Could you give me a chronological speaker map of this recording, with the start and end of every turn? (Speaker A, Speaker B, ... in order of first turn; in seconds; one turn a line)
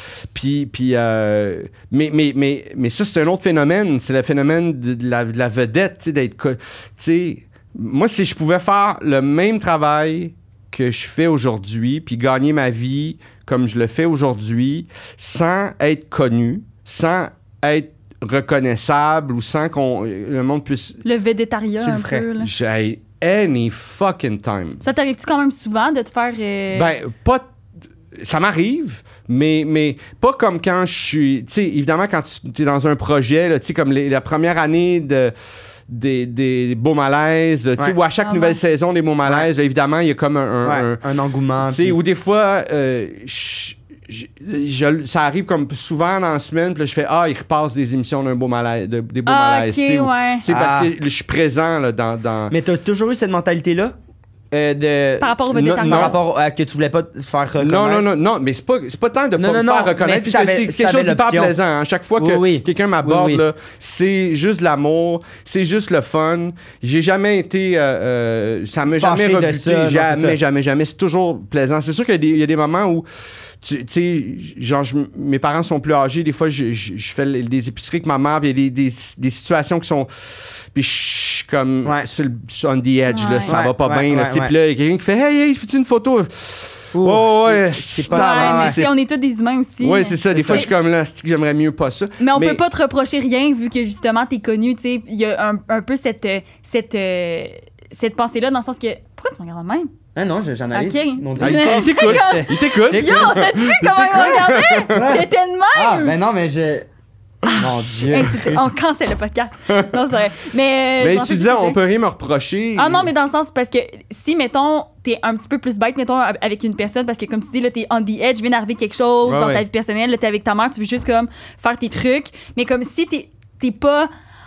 Speaker A: 0.3-21.0
Speaker B: 21.0-22.5
Speaker C: 21.8-22.3
Speaker A: 22.4-24.8
Speaker B: 24.8-26.9
Speaker A: 26.7-27.4
Speaker A: 28.2-35.3
Speaker A: 35.9-41.0
Speaker B: 38.2-38.6
Speaker C: 40.6-42.0
Speaker A: 41.6-52.5
Speaker B: 49.2-50.4
Speaker C: 50.5-50.9
Speaker C: 52.5-53.9
Speaker C: 54.5-58.0
Speaker B: 55.2-56.2
Speaker A: 55.5-56.2
Speaker A: 57.6-73.0
Speaker C: 59.4-61.5
Speaker C: 62.2-63.4
Speaker C: 68.9-70.4
Speaker A: 73.6-80.1
Speaker A: 80.7-88.9
Speaker B: 83.1-83.5
Speaker C: 83.5-84.5
Speaker C: 86.9-88.8
Speaker B: 88.1-90.7
Speaker A: 89.8-92.6
Speaker C: 90.3-90.7
Speaker B: 92.2-99.9
Speaker C: 100.1-103.3
Speaker B: 100.7-106.1
Speaker A: 101.4-105.2
Speaker C: 104.9-106.9
Speaker A: 107.4-108.4
Speaker C: 107.5-108.6
Speaker B: 107.5-111.8
Speaker A: 109.7-110.0
Speaker A: 111.0-113.1
Speaker B: 112.8-124.1
Speaker A: 119.2-119.6